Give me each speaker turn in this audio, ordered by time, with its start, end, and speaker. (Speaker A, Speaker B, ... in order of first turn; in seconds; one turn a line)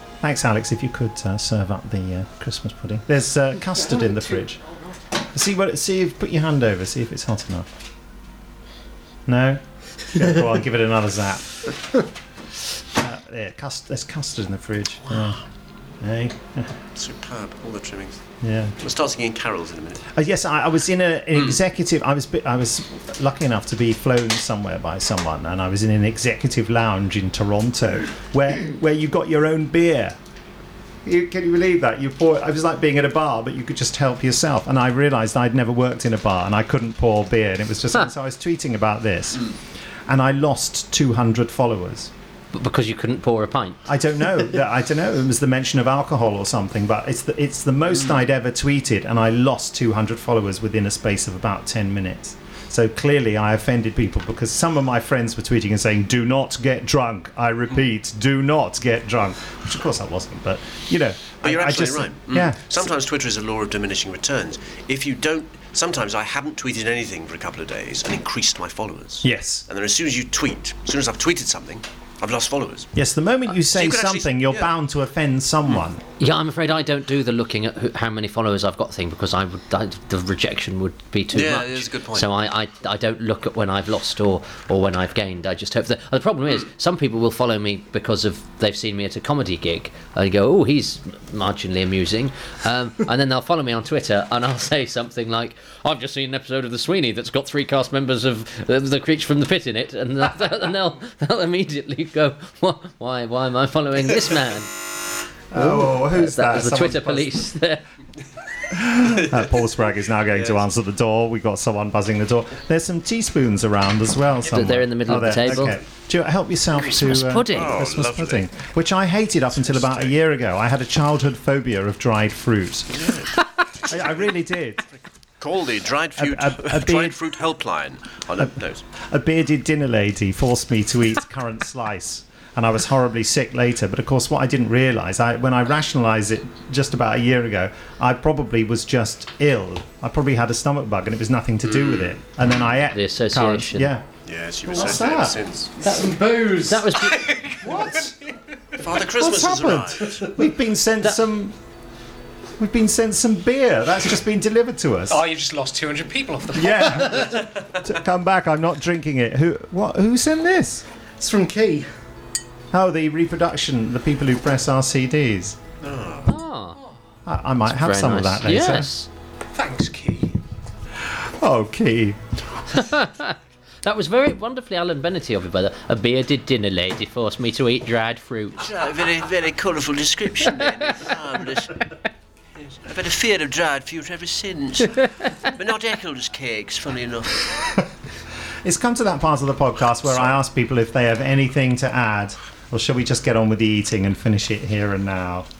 Speaker A: 0.2-4.6
Speaker A: 5.2-7.7
Speaker A: 9.3-11.9
Speaker A: 12.9-15.4
Speaker A: 16.0-16.8
Speaker B: 16.9-18.2
Speaker A: 18.4-18.8
Speaker B: 18.8-20.1
Speaker A: 20.1-30.2
Speaker A: 31.0-39.5
Speaker A: 40.1-42.1
Speaker C: 42.5-43.9
Speaker A: 43.9-62.6
Speaker B: 61.4-72.9
Speaker A: 69.2-69.7
Speaker A: 72.9-76.0
Speaker B: 73.6-74.7
Speaker C: 76.2-104.7
Speaker B: 81.3-82.3
Speaker A: 105.5-107.5
Speaker C: 105.5-107.8
Speaker A: 108.7-123.1
Speaker C: 114.5-115.8
Speaker C: 117.0-117.8
Speaker B: 117.4-118.5
Speaker B: 119.6-120.2
Speaker B: 122.9-124.3
Speaker A: 123.8-124.8
Speaker B: 125.4-128.8
Speaker A: 126.2-127.2
Speaker A: 129.0-144.1
Speaker B: 141.7-142.1
Speaker C: 142.9-143.9
Speaker B: 144.2-145.7
Speaker A: 144.7-145.4
Speaker D: 145.8-146.9
Speaker C: 146.5-147.4
Speaker E: 147.0-148.8
Speaker D: 147.7-148.0
Speaker A: 147.7-148.0
Speaker B: 148.8-150.3
Speaker A: 149.0-151.6
Speaker A: 152.6-155.3
Speaker E: 155.1-157.7
Speaker A: 156.5-160.8
Speaker D: 161.2-161.9
Speaker A: 162.7-165.6
Speaker B: 165.8-166.3
Speaker C: 166.2-166.8
Speaker A: 167.2-168.9
Speaker C: 167.6-169.1
Speaker E: 169.5-170.4
Speaker A: 171.0-172.2
Speaker C: 172.7-178.7
Speaker B: 178.6-181.8
Speaker B: 182.6-187.6
Speaker A: 188.6-195.5
Speaker B: 190.1-190.3